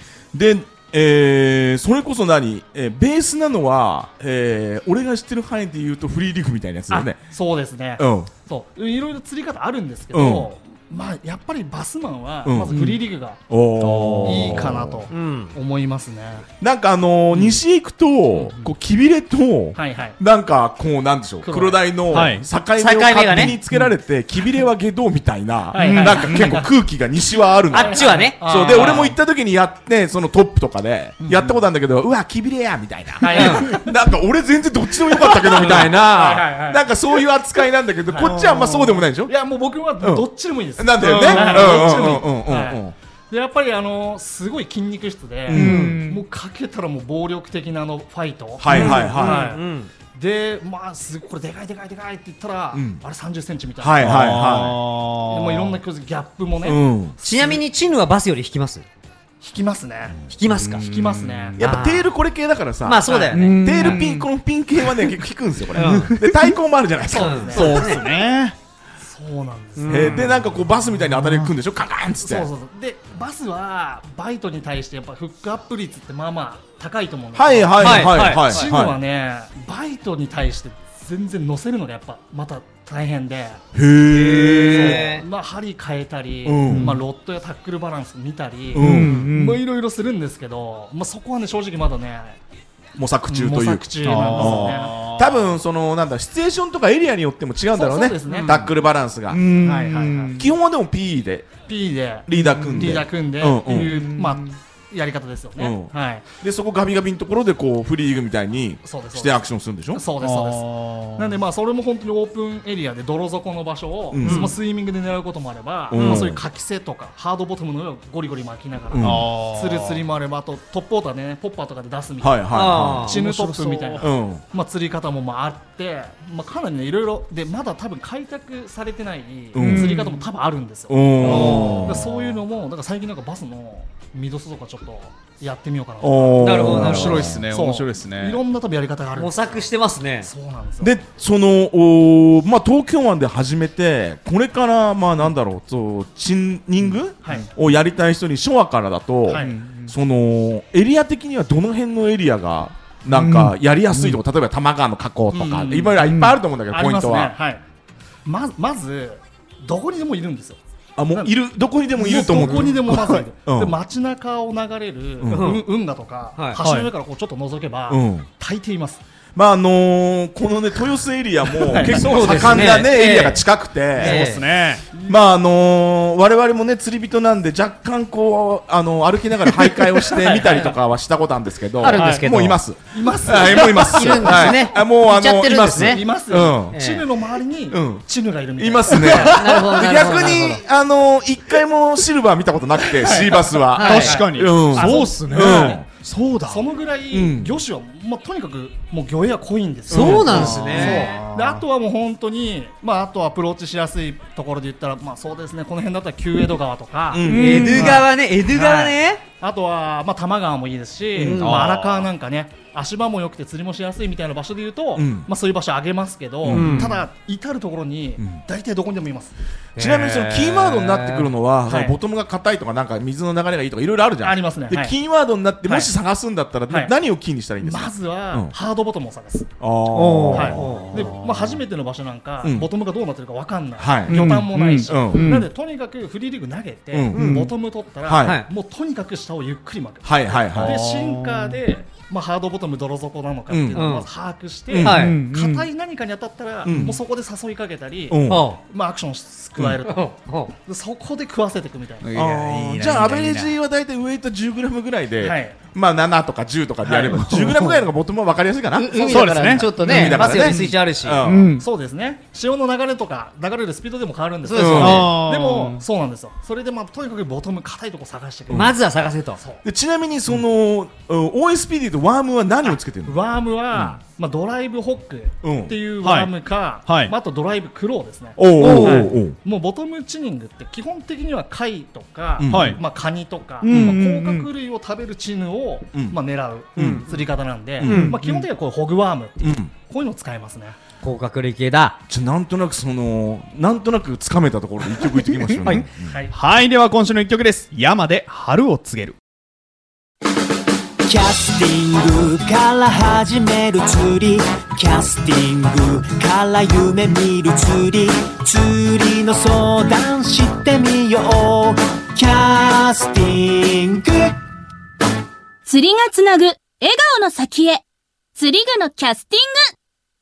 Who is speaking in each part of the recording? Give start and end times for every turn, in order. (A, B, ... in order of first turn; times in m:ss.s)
0:00.3-0:07.2 A
0:06.9-0:13.4 B
0:08.0-0:08.3 A
0:10.1-0:10.5 A
0:12.4-0:15.0 A
0:13.8-0:14.8 C
0:14.2-0:16.5 B
0:15.1-0:15.5 D
0:16.6-0:39.3 A
0:18.4-0:18.7 B
0:19.8-0:20.2 B
0:21.4-0:22.3 B
0:22.1-0:22.5 C
0:22.8-0:23.6 D
0:25.7-0:26.7 B
0:25.8-0:26.6 C
0:27.7-0:29.1 D
0:27.7-0:29.2 B
0:31.2-0:31.6 B
0:33.2-0:33.9 B
0:33.3-0:33.7 D
0:35.0-0:36.9 B
0:38.1-0:38.5 B
0:38.2-0:39.0 C
0:39.3-0:49.6 B
0:40.0-0:43.0 A
0:41.2-0:41.8 C
0:45.5-0:45.9 A
0:45.5-0:46.2 C
0:45.6-0:46.0 D
0:48.6-0:49.5 A
0:48.7-0:49.0 C
0:48.7-0:49.9 D
0:50.1-0:54.3 B
0:52.7-0:53.0 A
0:53.8-0:54.8 A
0:54.0-0:55.8 C
0:55.3-0:57.6 B
0:56.6-0:57.2 A
0:57.2-0:58.9 D
0:59.4-1:00.2 B
1:00.3-1:00.8 D
1:00.5-1:01.6 C
1:00.8-1:01.6 B
1:01.6-1:07.5 A
1:01.6-1:02.1 D
1:02.8-1:04.0 D
1:03.0-1:04.0 B
1:03.3-1:04.1 C
1:05.7-1:06.2 D
1:05.8-1:06.5 C
1:07.1-1:07.8 B
1:07.2-1:08.0 D
1:07.5-1:08.6 C
1:09.0-1:10.4 B
1:09.8-1:10.3 D
1:09.9-1:12.5 A
1:10.2-1:11.5 C
1:12.2-1:23.6 B
1:17.4-1:19.0 A
1:17.8-1:18.7 D
1:23.7-1:25.1 A
1:24.1-1:25.2 D
1:24.6-1:32.4 B
1:26.4-1:27.0 A
1:26.7-1:27.0 C
1:28.7-1:29.6 C
1:28.8-1:29.2 A
1:33.0-1:39.5 A
1:33.3-1:35.0 B
1:34.0-1:35.4 C
1:37.7-1:38.6 B
1:38.3-1:38.6 D
1:39.3-1:40.4 C
1:39.6-1:40.4 B
1:40.4-1:41.5 A
1:41.7-1:46.2 B
1:42.3-1:44.0 A
1:42.3-1:43.1 C
1:43.7-1:44.6 C
1:45.6-1:50.0 A
1:48.8-2:19.7 B
1:50.2-1:51.4 C
1:54.1-1:54.5 A
1:54.2-1:54.5 D
1:55.9-1:56.4 A
1:56.0-1:56.3 D
1:58.9-1:59.3 A
1:59.0-2:00.0 C
2:02.2-2:03.2 A
2:02.5-2:03.2 D
2:03.1-2:04.1 C
2:04.0-2:04.4 A
2:09.6-2:10.0 A
2:09.6-2:10.2 C
2:10.9-2:12.0 A
2:11.2-2:12.0 D
2:11.3-2:12.3 C
2:16.0-2:17.4 A
2:16.4-2:17.4 D
2:16.6-2:18.4 C
2:19.2-2:20.3 D
2:20.2-2:21.0 B
2:20.8-2:37.3 A
2:27.2-2:27.5 B
2:29.3-2:29.6 B
2:29.3-2:29.9 C
2:33.1-2:34.2 C
2:35.3-2:36.0 B
2:36.0-2:36.4 C
2:36.7-2:37.6 B
2:38.2-2:40.6 B
2:41.0-2:43.7 A
2:42.0-2:49.0 B
2:45.2-2:45.6 A
2:45.3-2:45.6 D
2:46.6-2:46.9 C
2:47.9-2:48.3 A
2:49.4-2:54.3 A
2:51.5-2:52.8 B
2:51.8-2:53.4 D
2:54.0-2:54.4 D
2:54.0-2:54.8 C
2:54.9-2:55.2 B
2:55.0-3:06.8 A
3:00.1-3:00.7 B
3:01.8-3:02.6 D
3:01.9-3:02.3 C
3:02.9-3:04.7 B
3:03.7-3:06.0 D
3:05.8-3:09.4 B
3:06.7-3:07.1 D
3:07.7-3:08.0 A
3:08.6-3:15.9 A
3:09.3-3:10.6 D
3:13.0-3:15.8 B
3:13.7-3:14.2 D
3:13.8-3:16.7 C
3:16.5-3:39.4 B
3:17.1-3:17.6 A
3:19.9-3:20.7 A
3:19.9-3:21.1 D
3:20.2-3:21.6 C
3:27.1-3:28.0 A
3:27.3-3:28.0 C
3:27.3-3:29.2 D
3:31.2-3:31.7 D
3:31.3-3:32.1 C
3:35.0-3:35.3 A
3:36.4-3:36.9 A
3:36.5-3:36.9 C
3:36.5-3:37.0 D
3:39.8-3:41.3 D
3:39.8-3:48.6 A
3:41.7-3:42.0 B
3:44.2-3:45.0 B
3:45.6-3:45.9 B
3:46.7-3:46.9 B
3:47.6-3:49.5 B
3:49.6-3:50.7 A
3:49.9-3:51.0 D
3:50.3-4:12.1 B
3:50.6-3:51.6 C
3:52.4-3:52.7 A
3:53.8-3:55.3 A
3:54.1-3:55.5 C
3:56.9-3:57.4 A
3:57.1-3:57.5 D
3:57.2-3:57.5 C
3:58.0-3:58.4 A
4:00.0-4:00.8 A
4:00.5-4:01.6 C
4:03.5-4:03.9 A
4:03.7-4:04.1 D
4:04.7-4:05.1 A
4:04.8-4:05.2 D
4:04.8-4:05.7 C
4:06.6-4:07.0 A
4:08.1-4:08.5 A
4:08.3-4:08.6 D
4:09.9-4:10.5 D
4:12.0-4:13.5 C
4:12.1-4:21.6 A
4:15.2-4:15.6 B
4:16.8-4:17.5 B
4:17.3-4:17.6 C
4:18.7-4:21.2 D
4:19.0-4:20.6 C
4:19.9-4:20.4 B
4:21.2-4:21.6 C
4:21.6-4:28.8 B
4:24.5-4:25.1 D
4:24.6-4:25.1 A
4:24.8-4:25.8 C
4:28.5-4:29.4 D
4:29.4-4:29.6 B
4:29.6-4:33.2 A
4:32.6-4:50.8 B
4:35.4-4:35.8 A
4:36.0-4:36.3 C
4:36.9-4:37.1 C
4:38.4-4:39.4 A
4:38.6-4:39.1 D
4:42.4-4:42.8 A
4:42.5-4:42.8 C
4:43.6-4:44.5 C
4:43.7-4:44.0 A
4:46.8-4:47.0 A
4:46.8-4:47.1 D
4:47.8-4:48.2 A
4:47.8-4:48.2 D
4:47.9-4:48.4 C
4:49.4-4:49.7 A
4:51.0-4:52.0 D
4:52.1-4:56.2 A
4:55.4-4:55.7 C
4:56.0-4:56.4 B
4:56.3-4:59.2 C
5:01.0-5:14.4 E
5:15.7-5:17.8 F
5:18.4-5:19.7 F